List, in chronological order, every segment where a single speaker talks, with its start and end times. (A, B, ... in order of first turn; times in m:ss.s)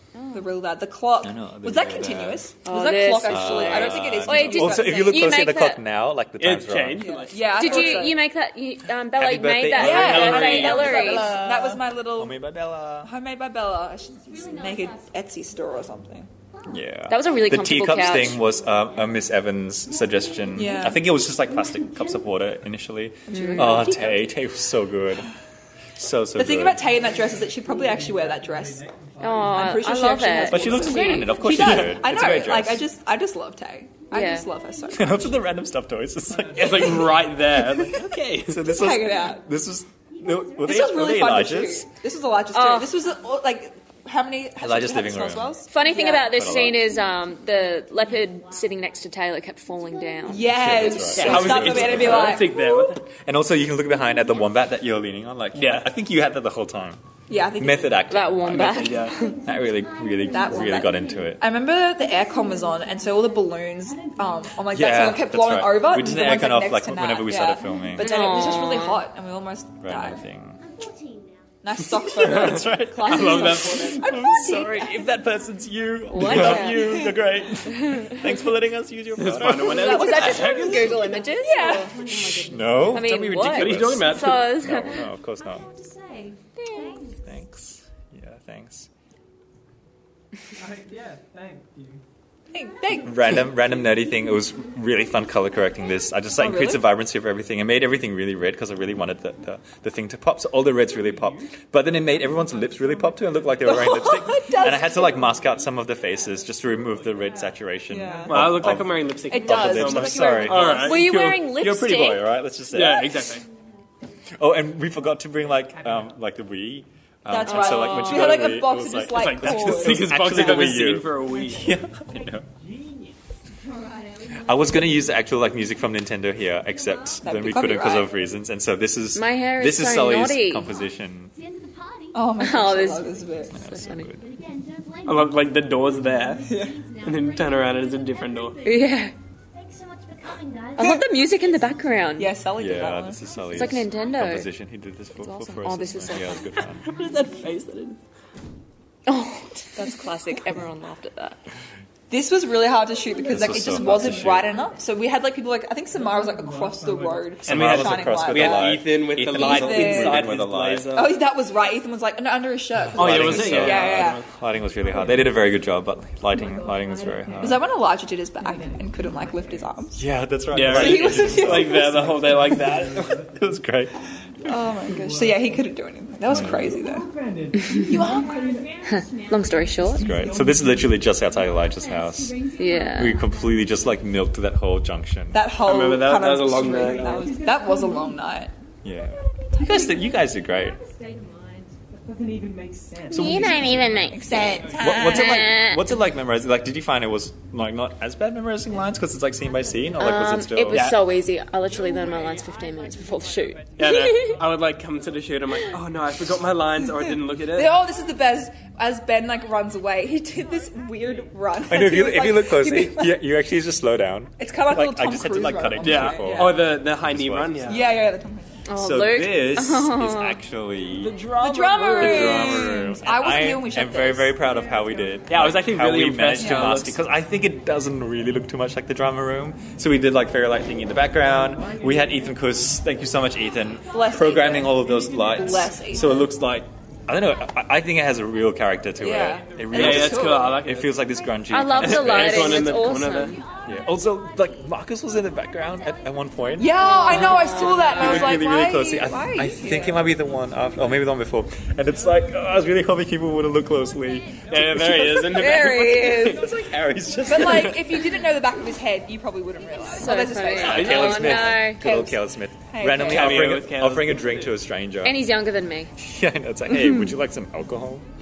0:00.1-0:00.5 A
0:00.3-0:05.5 B
0:01.2-0:02.5 C
0:02.6-0:05.8 A
0:03.2-0:07.1 C
0:06.4-0:07.8 D
0:07.0-0:08.2 B
0:07.5-0:11.4 A
0:09.1-0:13.1 C
0:09.7-0:12.4 B
0:09.9-0:11.2 D
0:13.0-0:16.3 B
0:14.0-0:15.4 E
0:16.7-0:25.3 C
0:17.1-0:18.4 A
0:18.1-0:19.2 E
0:19.9-0:22.2 E
0:20.5-0:21.1 B
0:23.3-0:24.2 B
0:23.3-0:24.0 A
0:26.0-0:26.8 C
0:26.3-0:35.4 B
0:27.2-0:29.8 F
0:29.2-0:31.8 A
0:30.5-0:32.8 C
0:34.1-0:34.4 A
0:34.9-0:41.9 C
0:36.4-0:36.8 F
0:36.5-0:38.7 D
0:38.6-0:39.4 B
0:40.1-0:41.5 E
0:40.6-0:46.5 B
0:42.5-0:42.9 A
0:44.6-0:45.6 C
0:45.7-0:51.6 A
0:45.8-0:49.0 E
0:46.2-0:46.8 C
0:49.7-0:51.2 E
0:50.3-0:52.8 B
0:50.4-0:57.0 C
0:51.1-0:53.0 D
0:54.0-0:54.5 E
0:55.5-0:55.9 D
0:57.3-0:58.3 B
0:57.6-1:01.4 C
0:58.1-0:59.4 A
0:58.5-0:59.2 D
0:58.9-1:04.6 E
1:00.3-1:10.2 B
1:04.7-1:08.2 C
1:07.6-1:08.3 E
1:08.0-1:09.0 A
1:09.8-1:10.6 C
1:10.6-1:12.1 E
1:11.6-1:15.0 B
1:12.1-1:20.4 C
1:12.2-1:14.2 D
1:13.2-1:13.8 A
1:16.1-1:17.0 A
1:16.2-1:16.5 D
1:16.5-1:17.1 E
1:16.8-1:17.1 B
1:17.7-1:18.2 A
1:17.8-1:18.4 E
1:19.2-1:21.2 D
1:19.6-1:25.0 A
1:19.7-1:21.9 B
1:19.9-1:23.3 E
1:22.1-1:25.7 C
1:23.4-1:24.6 D
1:24.4-1:27.4 E
1:26.6-1:27.1 A
1:27.2-1:28.9 C
1:30.6-1:32.0 F
1:32.5-1:33.5 B
1:32.6-1:33.0 E
1:33.0-1:53.3 C
1:34.0-1:35.9 E
1:36.4-1:36.8 B
1:40.9-1:43.9 F
1:43.6-1:45.3 B
1:44.9-1:48.4 F
1:47.9-1:48.6 B
1:48.3-1:51.5 D
1:49.3-1:51.0 B
1:50.8-1:52.4 A
1:52.7-1:53.4 D
1:54.4-2:02.4 C
1:55.6-1:56.2 F
1:57.3-2:00.1 B
1:57.4-1:58.5 A
1:59.1-2:01.7 D
2:01.3-2:03.2 F
2:03.5-2:05.3 E
2:04.3-2:11.3 C
2:06.7-2:07.7 E
2:07.2-2:08.1 B
2:09.1-2:10.7 A
2:10.7-2:22.2 E
2:12.1-2:13.6 B
2:12.4-2:14.1 A
2:13.5-2:14.2 C
2:15.0-2:18.6 D
2:16.4-2:16.8 B
2:18.6-2:19.1 A
2:20.8-2:22.4 A
2:20.8-2:21.2 B
2:22.2-2:23.3 B
2:22.6-2:26.9 C
2:23.3-2:24.2 E
2:23.5-2:24.5 A
2:25.2-2:26.5 A
2:26.0-2:27.5 E
2:26.8-2:28.0 D
2:29.1-2:31.4 A
2:32.1-2:40.4 B
2:33.2-2:34.5 C
2:33.6-2:34.0 E
2:35.9-2:37.4 F
2:37.4-2:41.1 D
2:37.4-2:40.9 C
2:40.9-2:44.2 B
2:42.8-2:47.6 C
2:42.9-2:44.2 D
2:44.8-2:45.5 F
2:46.3-2:47.7 F
2:47.4-2:50.0 B
2:48.4-2:49.9 F
2:50.0-2:52.7 C
2:50.5-2:53.2 D
2:50.6-2:53.5 F
2:50.7-2:52.0 B
2:53.3-2:54.0 C
2:54.4-2:57.1 B
2:54.5-2:55.7 F
2:56.3-2:56.7 C
2:56.3-2:58.8 F
2:57.6-3:03.9 E
2:57.9-2:58.3 B
2:58.9-3:00.1 A
2:59.9-3:01.0 F
3:00.0-3:02.4 C
3:02.6-3:03.2 A
3:02.9-3:05.4 C
3:05.3-3:08.5 B
3:05.6-3:07.2 D
3:06.5-3:08.2 E
3:06.8-3:08.0 F
3:08.8-3:10.8 C
3:09.1-3:11.8 E
3:11.9-3:15.0 F
3:13.1-3:13.6 C
3:13.1-3:15.9 A
3:13.2-3:14.4 E
3:14.1-3:15.6 B
3:14.8-3:20.9 C
3:19.4-3:20.2 E
3:20.0-3:24.4 A
3:20.7-3:21.0 D
3:21.7-3:24.8 F
3:21.8-3:24.3 E
3:23.8-3:27.8 D
3:27.4-3:33.2 B
3:31.6-3:37.8 C
3:34.4-3:36.6 B
3:35.8-3:37.8 D
3:37.6-3:38.6 B
3:38.7-3:40.4 A
3:38.7-3:41.2 C
3:41.0-3:42.6 D
3:41.4-3:44.4 B
3:41.9-4:02.7 C
3:45.3-3:47.0 D
3:51.5-3:52.4 F
3:53.9-3:56.2 B
3:54.9-3:55.4 F
3:55.9-3:56.2 F
3:59.0-4:00.6 B
3:59.7-4:01.0 D
4:01.3-4:01.7 E
4:01.5-4:03.4 A
4:01.8-4:03.4 D
4:02.5-4:08.4 E
4:03.6-4:18.0 C
4:06.6-4:10.1 B
4:06.8-4:08.3 A
4:13.6-4:16.1 E
4:14.5-4:16.4 D
4:15.3-4:16.5 B
4:16.7-4:18.0 E
4:17.2-4:23.6 B
4:19.6-4:20.6 E
4:19.8-4:21.8 A
4:20.5-4:21.2 D
4:20.6-4:25.2 C
4:23.0-4:24.5 D
4:25.0-4:25.9 A
4:26.0-4:28.0 C
4:26.8-4:27.1 A